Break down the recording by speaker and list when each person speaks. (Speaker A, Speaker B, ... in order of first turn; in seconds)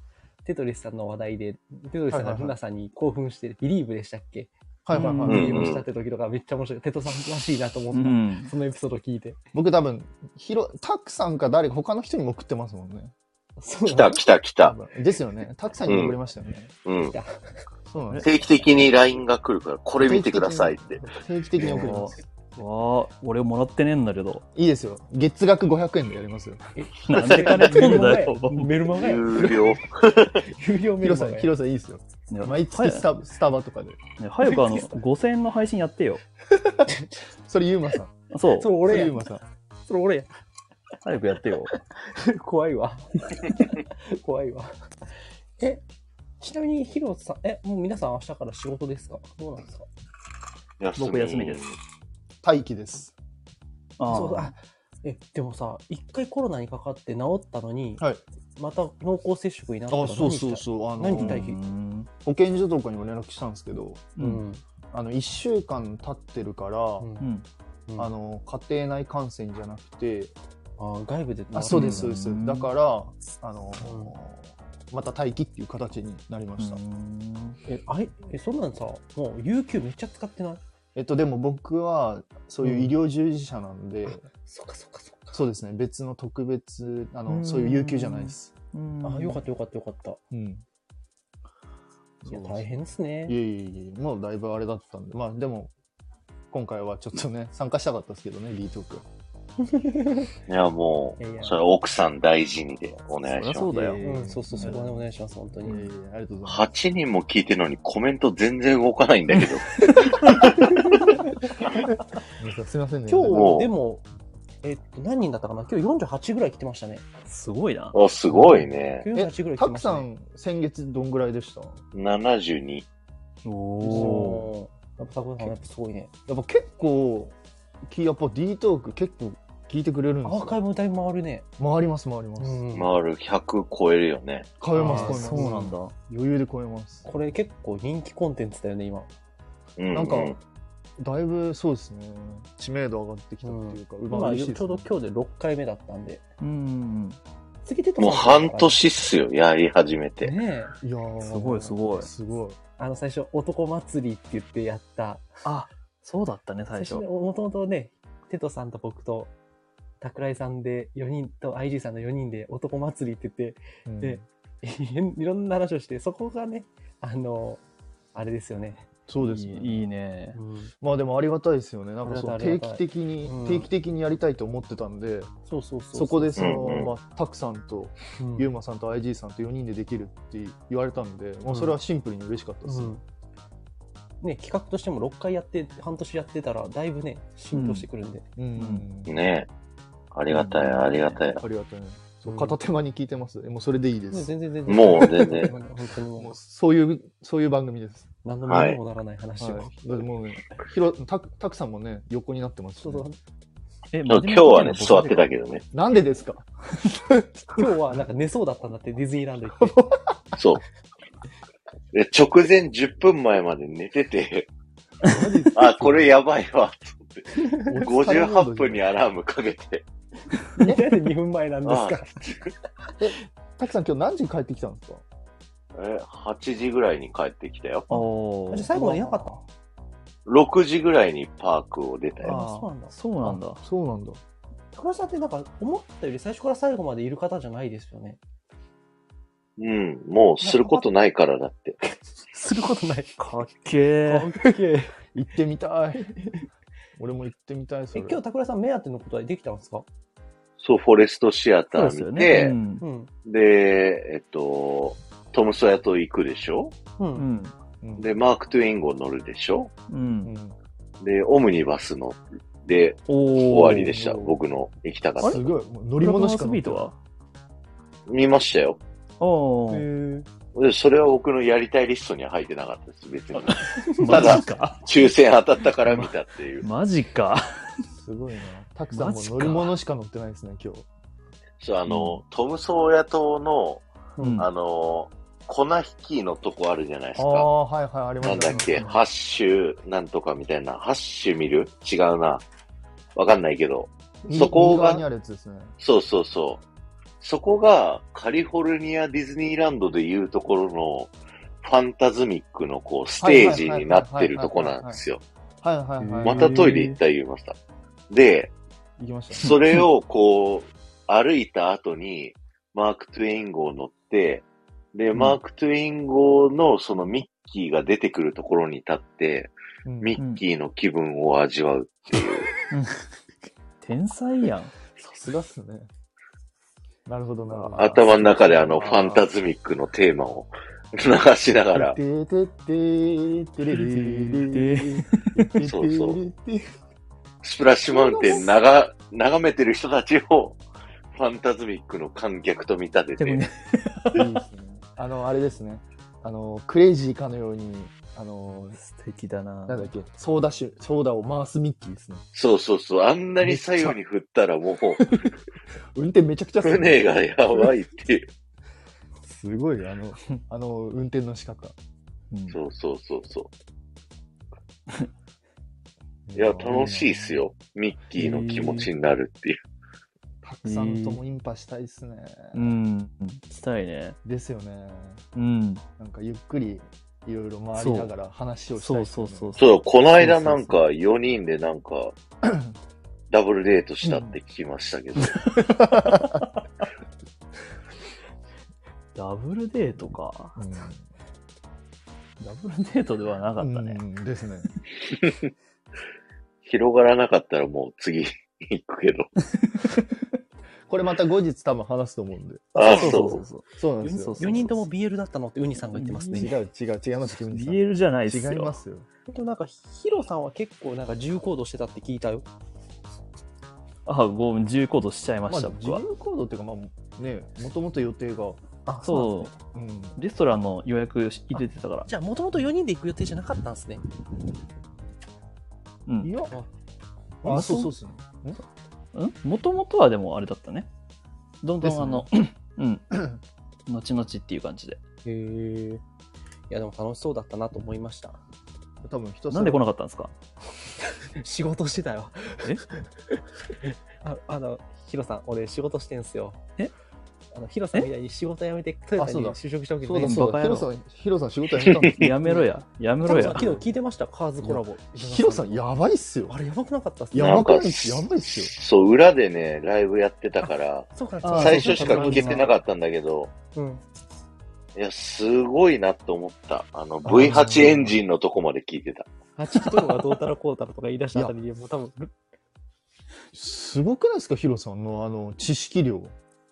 Speaker A: 0.4-9.4, 13.6-14.2, 17.1-17.4, 26.8-31.5, 34.5-35.0, 38.5-39.2, 39.9-40.3, 41.7-44.8, 46.4-49.9, 54.1-58.0, 58.5-61.6, 64.2-64.6, 67.0-67.3, 70.8-72.1, 73.8-74.1, 77.7-80.6, 82.6-82.9, 84.0-85.4, 89.0-90.2, 92.2-93.3, 99.7-100.3, 101.2-101.6, 104.0-105.9, 110.6-111.2, 113.1-114.0, 114.6-117.0, 119.0-120.0, 123.8-126.1, 130.2-131.4, 132.4-132.9, 134.7-135.7, 137.0-139.1, 143.4-146.2, 147.6-148.8, 150.2-150.8, 152.8-155.3, 156.7-159.3, 160.0-167.6, 168.1-168.9, 170.3-170.7, 172.0-173.7, 175.5-176.8, 178.2-178.5, 181.5-181.7, 182.7-183.0, 184.2-188.2, 192.3-192.5, 194.1-196.3, 198.2-200.0, 202.8-203.2, 207.5-209.8, 220.6-222.4, 228.5-229.4, 232.2-232.9, 234.7-238.2, 240.4-240.8, 242.3-243.2, 244.1-244.9, 247.9-249.8, 252.8-253.1, 257.0-257.2, 269.7-270.3, 274.0-274.4, 278.9-279.7, 284.2-284.4, 404.0-406.5, 409.3-412.4, 418.9-419.5, 421.6-424.1, 435.2-436.0, 436.7-438.4, 441.0-446.6, 447.5-450.6, 453.2-455.9, 456.5-457.6, 461.1-462.7, 463.7-464.0, 469.6-472.3
Speaker B: 2.1-2.5, 4.8-5.7, 9.5-13.1, 14.6-16.7, 17.9-18.3, 20.0-22.3, 24.5-26.6, 31.0-34.0, 36.5-38.1, 38.8-39.4, 52.4-53.1, 59.9-61.4, 62.2-64.1, 64.9-67.1, 68.0-70.3, 71.5-76.8, 80.9-84.2, 85.3-88.5, 90.3-90.6, 92.2-92.7, 93.2-95.7, 96.5-99.0, 103.7-105.0, 105.6-106.7, 112.4-113.5, 119.1-121.8, 123.9-124.3, 126.3-127.3, 127.8-130.6, 131.6-132.6, 134.6-137.1, 139.9-140.4, 141.0-144.9, 150.8-152.6, 163.8-164.2, 169.1-169.8, 170.8-175.3, 175.9-182.9, 188.4-189.2, 191.3-195.5, 196.2-198.1, 199.4-203.1, 205.7-207.3, 209.6-210.2, 215.0-216.1, 217.6-218.8, 220.6-220.9, 223.0-225.0, 228.7-229.3, 232.2-232.7, 233.2-234.2, 245.1-246.3, 247.0-248.2, 257.8-258.1, 260.2-260.5, 265.2-266.9, 277.9-280.9, 287.1-288.9, 294.2-295.7, 303.2-305.0, 305.6-306.6, 309.0-309.5, 319.8-320.2, 325.0-325.9, 327.1-329.2, 331.7-336.7, 337.9-338.5, 344.1-348.8, 349.7-352.2, 353.4-353.9, 355.0-355.3, 355.9-357.7, 359.2-361.7, 366.3-367.4, 370.4-372.7, 374.2-375.2, 376.0-379.6, 382.4-382.7, 384.0-384.4, 385.6-386.5, 390.6-391.0, 393.6-394.7, 400.9-403.2, 403.8-404.6, 406.3-409.1, 415.5-418.6, 419.7-420.2, 426.2-426.6, 427.4-428.6, 431.8-432.3, 439.0-439.8, 449.2-452.7, 453.3-453.9, 454.6-456.6, 457.3-458.7, 461.5-462.7, 467.2-468.2, 473.5-476.3
Speaker C: 4.9-5.6, 7.9-8.5, 21.6-24.4, 27.1-28.8, 32.3-33.1, 34.2-36.2, 38.3-38.9, 41.0-41.8, 51.0-51.6, 54.0-54.5, 61.2-62.1, 64.2-64.4, 67.2-67.5, 71.7-72.7, 76.6-77.6, 87.3-89.5, 103.3-104.8, 117.2-118.0, 123.4-124.5, 134.8-135.9, 146.4-147.2, 151.2-152.1, 155.4-157.0, 169.2-170.4, 187.5-187.9, 188.6-188.8, 190.3-190.9, 203.9-205.3, 227.9-228.8, 232.9-233.6, 243.2-244.4, 251.7-252.8, 257.1-257.5, 259.9-260.3, 263.1-264.2, 266.0-266.9, 269.2-269.9, 273.4-274.8, 275.8-277.8, 281.9-282.2, 284.2-284.5, 306.0-307.0, 309.4-309.8, 322.7-323.0, 323.8-324.7, 333.7-335.5, 343.2-344.4, 348.8-349.9, 362.3-362.6, 368.1-368.9, 370.6-371.2, 372.5-374.2, 375.3-375.8, 377.8-378.1, 378.8-379.6, 380.2-380.8, 385.2-386.4, 389.1-390.6, 392.4-394.0, 402.8-404.8, 405.9-406.5, 407.4-408.8, 414.1-416.0, 419.0-419.5, 420.2-422.1, 426.1-426.3, 427.4-427.9, 429.1-430.9, 431.6-433.3, 433.9-435.0, 439.5-440.3, 450.2-450.9, 452.1-453.7, 461.4-462.4
Speaker D: 5.3-5.8, 13.8-14.8, 15.8-16.1, 16.9-17.1, 18.2-21.1, 27.1-27.9, 28.9-30.4, 50.8-51.8, 100.5-103.9, 106.5-110.7, 113.3-113.7, 117.9-119.1, 121.9-122.8, 132.7-134.5, 139.8-140.4, 148.0-150.3, 176.4-176.9, 189.1-189.5, 190.1-191.4, 194.7-195.5, 198.5-198.8, 204.1-205.6, 210.3-210.6, 211.9-214.5, 215.5-219.8, 221.6-222.0, 225.7-227.9, 230.2-232.4, 239.6-241.8, 250.6-252.6, 253.2-256.7, 258.0-259.7, 261.0-265.4, 268.1-268.8, 270.5-276.7, 281.6-283.8, 284.4-287.5, 288.2-292.4, 293.1-295.0, 295.8-296.6, 297.2-301.1, 301.6-305.2, 306.2-307.5, 308.1-308.5, 309.3-322.5, 327.7-332.0, 335.6-336.2, 337.4-340.6, 341.1-343.4, 352.3-355.1, 356.6-358.3, 362.5-363.5, 366.3-369.6, 379.6-382.1, 383.3-385.6, 396.6-399.3, 402.7-403.4, 451.8-452.1, 457.4-463.5, 464.9-469.2